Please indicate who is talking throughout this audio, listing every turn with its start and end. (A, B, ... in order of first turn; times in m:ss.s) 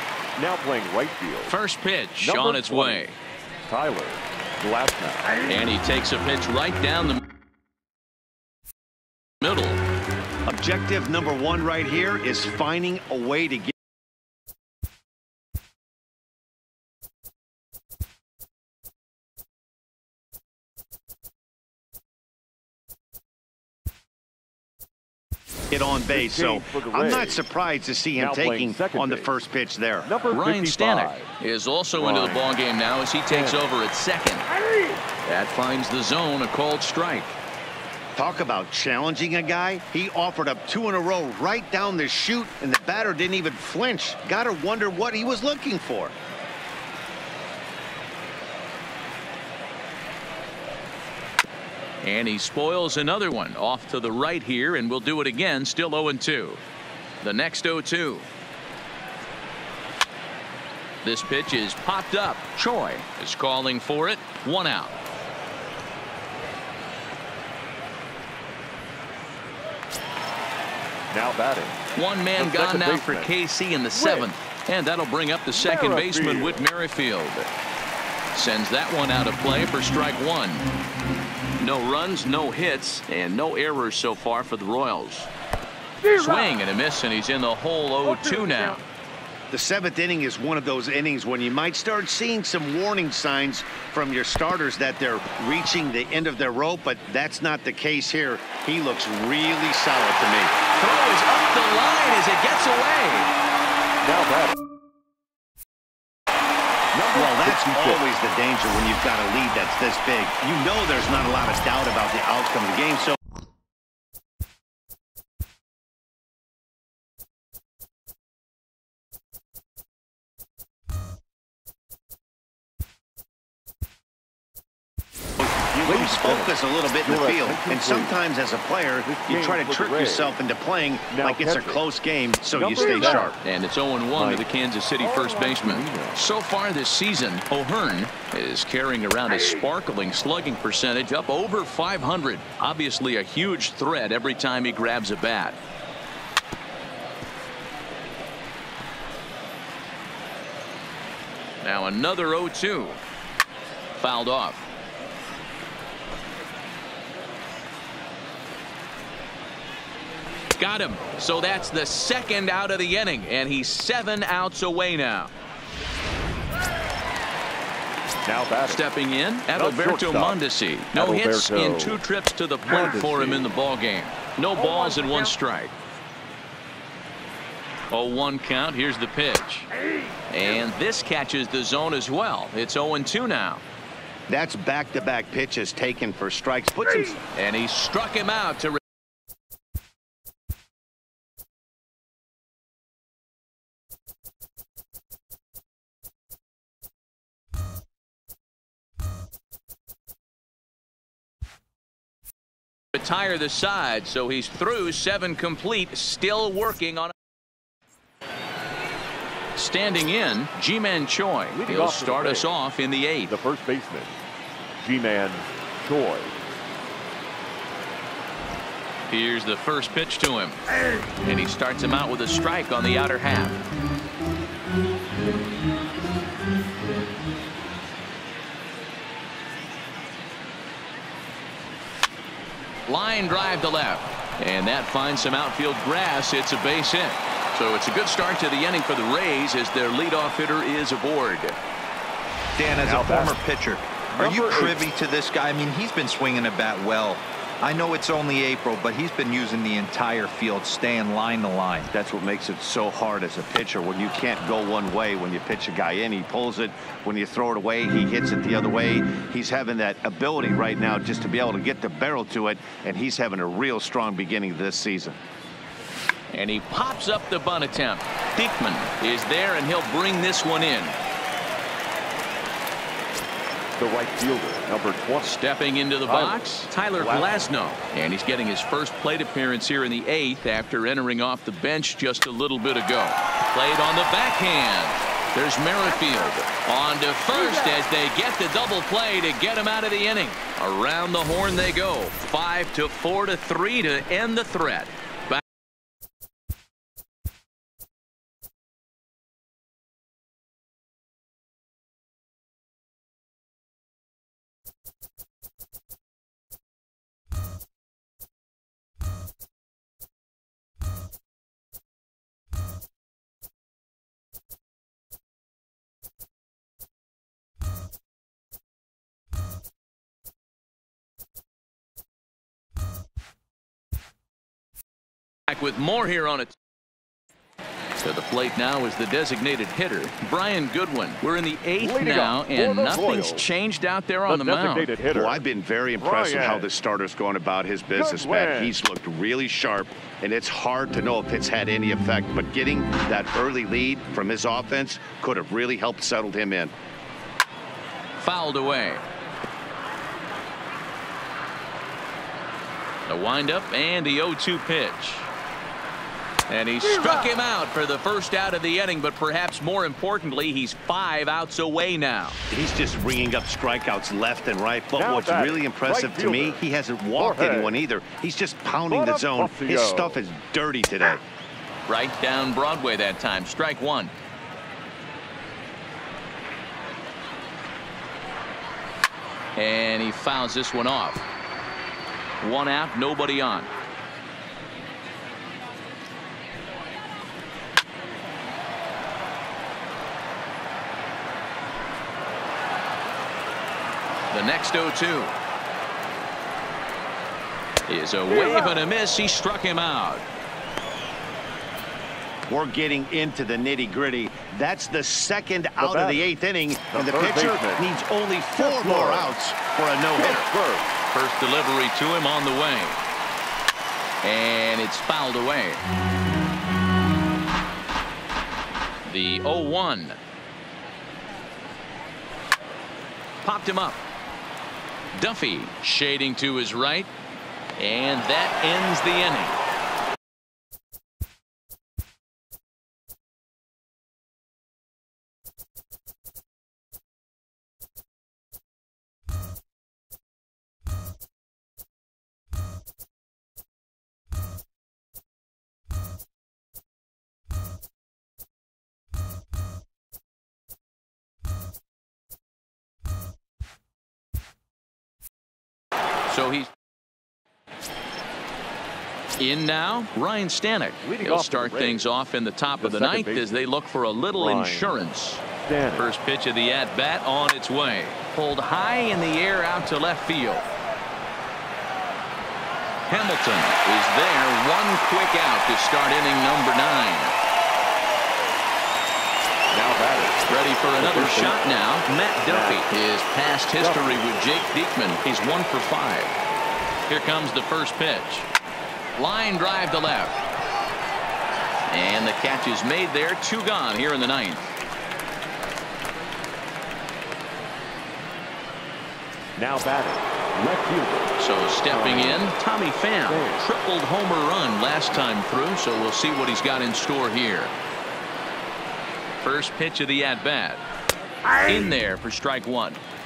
0:00.4-0:01.5 A
0:01.5-0:03.2 B
0:02.2-0:03.1 A
0:03.6-0:05.4 A
0:05.4-0:07.2 B
0:09.4-0:09.8 B
0:10.4-0:13.7 C
0:25.7-0:30.1 C
0:26.1-0:27.4 A
0:28.1-0:29.4 A
0:30.0-0:31.3 A
0:30.3-0:34.5 B
0:31.9-0:32.5 A
0:33.3-0:33.6 A
0:35.2-0:37.4 B
0:38.1-0:46.1 C
0:52.0-0:56.6 B
0:57.2-0:58.3 B
1:01.0-1:04.9 B
1:11.1-1:11.8 A
1:11.9-1:17.5 B
1:12.4-1:13.3 A
1:13.9-1:14.3 A
1:15.5-1:16.6 A
1:18.3-1:20.6 B
1:21.6-1:25.3 B
1:26.0-1:28.8 B
1:29.5-1:40.6 C
1:40.8-1:43.3 B
1:44.0-1:44.6 A
1:46.9-1:48.0 A
1:47.1-1:53.2 C
2:05.4-2:13.3 C
2:05.6-2:08.2 A
2:09.0-2:10.4 A
2:11.1-2:11.8 A
2:12.5-2:13.4 A
2:12.9-2:25.6 B
2:14.1-2:14.4 A
2:15.0-2:16.3 A
2:31.6-2:33.0 B
2:34.0-2:34.6 B
2:40.6-2:45.3 B
2:48.2-2:48.8 A
2:48.6-2:55.7 B
2:49.5-2:52.0 A
2:52.6-2:53.5 A
2:57.9-2:59.7 B
3:00.3-3:03.6 B
3:04.3-3:07.2 C
3:07.3-3:08.8 B
3:22.9-3:27.1 B
3:29.6-3:33.4 B
3:31.5-3:32.6 A
3:33.3-3:34.2 A
3:34.8-3:36.4 A
3:39.1-3:40.6 B
3:41.2-3:43.6 B
3:52.9-4:01.6 B
4:02.6-4:11.9 D
4:02.8-4:03.4 A
4:04.1-4:04.8 A
4:11.9-4:25.2 C
4:26.3-4:31.0 B
4:33.8-4:35.4 A
4:35.2-4:55.4 B
4:36.0-4:37.4 A
5:25.5-5:26.6 B
5:28.0-5:34.9 B
5:31.8-5:33.5 A
5:34.3-5:35.4 A
5:35.1-5:46.7 C
5:36.0-5:36.7 A
5:37.9-5:38.8 A
5:48.2-5:49.0 B
5:53.1-5:55.3 B
5:56.5-6:02.4 B
6:02.5-6:11.2 C
6:04.9-6:06.6 A
6:07.2-6:07.8 A
6:08.8-6:10.2 A
6:11.9-6:14.1 B
6:19.6-6:21.2 B
6:22.4-6:23.7 B
6:34.3-6:35.3 B
6:37.9-6:40.2 B
6:42.5-6:50.5 C
6:45.8-6:46.4 A
6:46.9-6:47.9 A
6:48.6-6:49.4 A
6:50.1-6:51.0 A
6:51.1-6:53.0 B
6:54.2-6:55.8 B
6:59.1-7:00.2 B
7:03.4-7:04.0 B
7:05.2-7:07.1 B
7:07.8-7:09.6 B
7:36.3-7:36.7 B
7:39.4-7:45.4 B
7:41.0-7:42.0 A
7:42.8-7:43.6 A
7:44.3-7:45.0 A
7:45.6-7:46.1 A
7:45.9-7:50.7 B
7:53.1-7:57.3 B
7:59.7-8:00.4 A
8:00.5-8:06.3 B
8:01.0-8:01.6 A
8:02.4-8:02.8 A
8:03.8-8:04.2 A
8:07.1-8:08.5 B
8:09.2-8:10.3 B
8:11.9-8:14.7 B
8:19.6-8:21.4 A
8:21.4-8:27.7 B
8:21.9-8:22.5 A
8:23.2-8:23.6 A
8:29.4-8:30.8 B
8:31.6-8:33.0 B